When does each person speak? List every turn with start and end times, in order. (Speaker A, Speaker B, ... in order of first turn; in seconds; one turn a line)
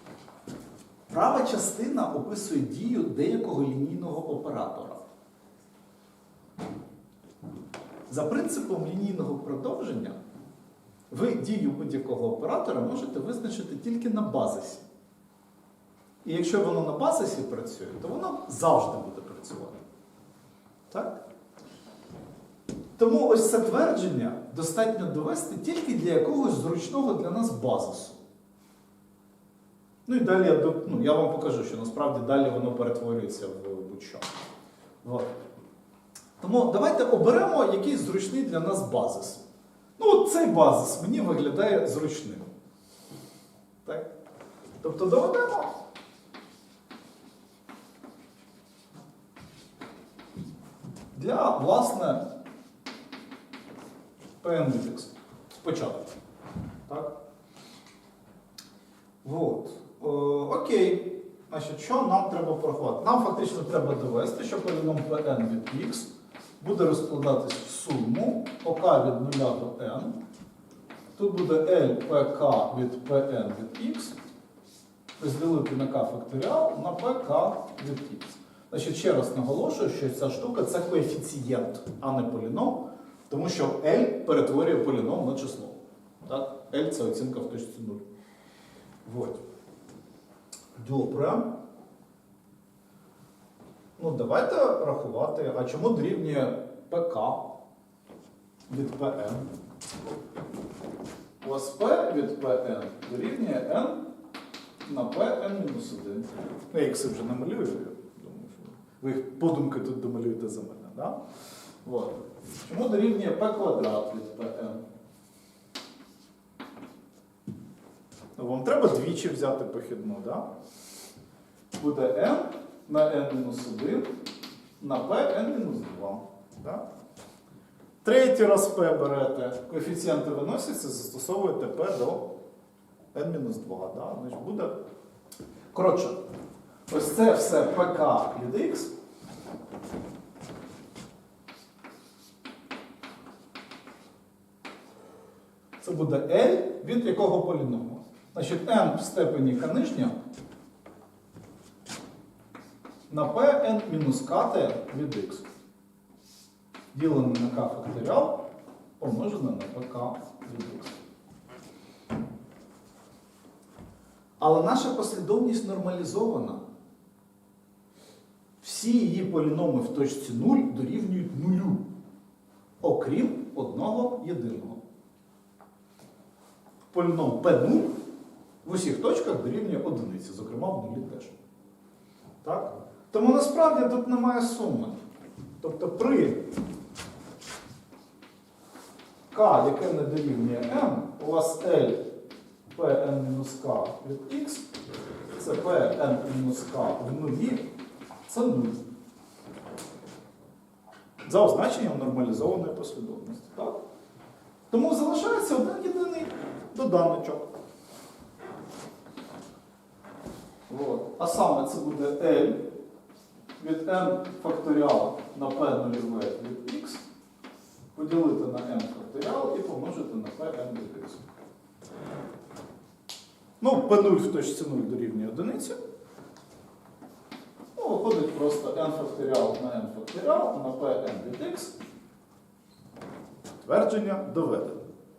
Speaker A: 1.1-5.0
Speaker A: 8.1-10.2
Speaker A: 11.1-14.8
Speaker A: 16.2-19.8
Speaker A: 20.9-21.2
Speaker A: 23.0-28.2
Speaker A: 30.1-34.3
Speaker A: 35.0-35.3
Speaker A: 36.4-39.4
Speaker A: 40.0-42.5
Speaker A: 44.8-45.7
Speaker A: 51.1-52.2
Speaker A: 54.4-56.1
Speaker A: 56.9-57.1
Speaker A: 59.2-66.1
Speaker A: 66.6-70.1
Speaker A: 71.2-74.1
Speaker A: 75.2-88.0
Speaker A: 89.0-89.4
Speaker A: 90.8-91.5
Speaker A: 94.0-97.4
Speaker A: 98.7-99.5
Speaker A: 101.4-104.0
Speaker A: 104.8-111.2
Speaker A: 111.8-114.8
Speaker A: 118.3-120.5
Speaker A: 121.7-124.1
Speaker A: 124.8-126.8
Speaker A: 128.0-132.2
Speaker A: 133.1-134.7
Speaker A: 135.7-136.2
Speaker A: 136.9-138.9
Speaker A: 145.8-150.1
Speaker A: 153.1-155.4
Speaker A: 156.9-158.4
Speaker A: 159.0-160.9
Speaker A: 164.4-166.6
Speaker A: 168.6-171.8
Speaker A: 172.8-174.8
Speaker A: 176.9-177.9
Speaker A: 178.6-181.3
Speaker A: 182.4-185.0
Speaker A: 185.6-186.4
Speaker A: 189.3-192.0
Speaker A: 192.7-194.7
Speaker A: 195.3-197.7
Speaker A: 198.2-198.8
Speaker A: 201.2-203.8
Speaker A: 204.7-207.5
Speaker A: 210.7-212.6
Speaker A: 213.6-217.0
Speaker A: 217.9-221.2
Speaker A: 223.6-225.8
Speaker A: 227.8-231.8
Speaker A: 233.6-234.8